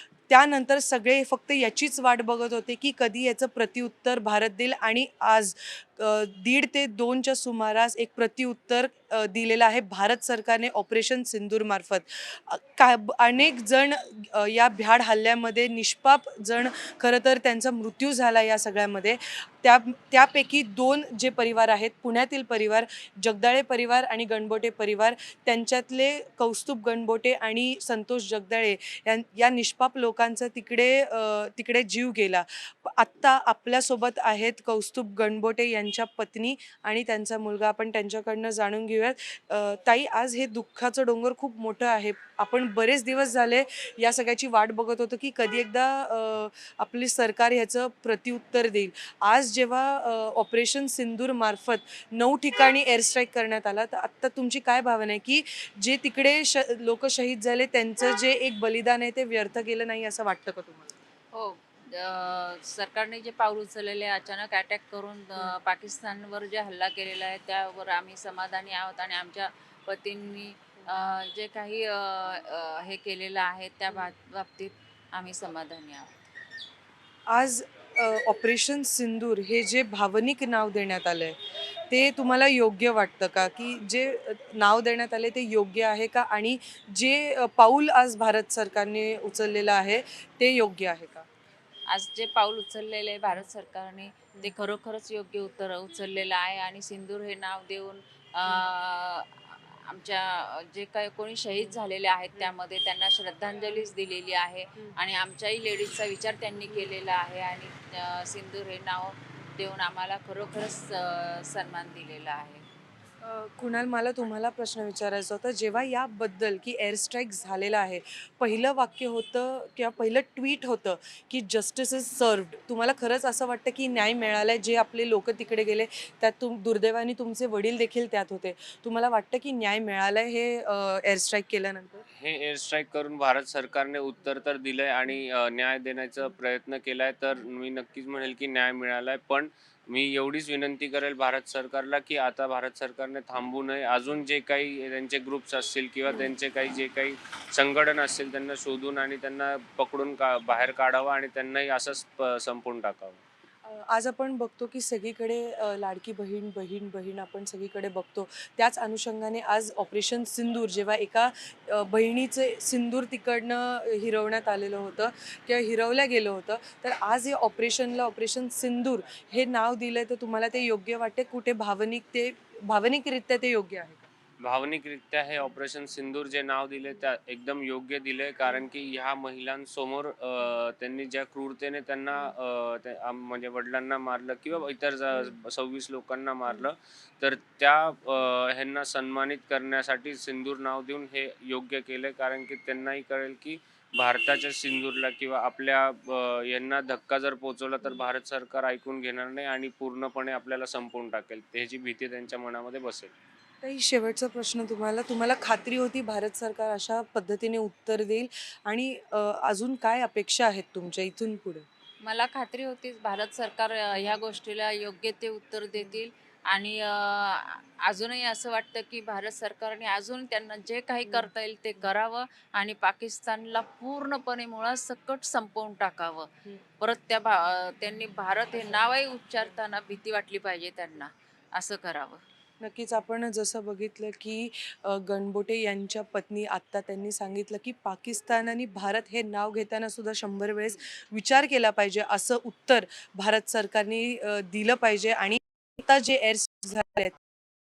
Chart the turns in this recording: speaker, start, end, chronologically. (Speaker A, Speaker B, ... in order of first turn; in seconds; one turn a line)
Speaker A: 0.3-61.0
Speaker B: 61.3-76.2
Speaker A: 77.3-81.4
Speaker A: 81.9-91.3
Speaker B: 91.9-112.7
Speaker A: 113.2-132.1
Speaker C: 132.1-153.2
Speaker A: 153.7-174.1
Speaker C: 174.4-203.1
Speaker A: 203.6-211.7
Speaker B: 212.0-232.2
Speaker A: 232.6-247.2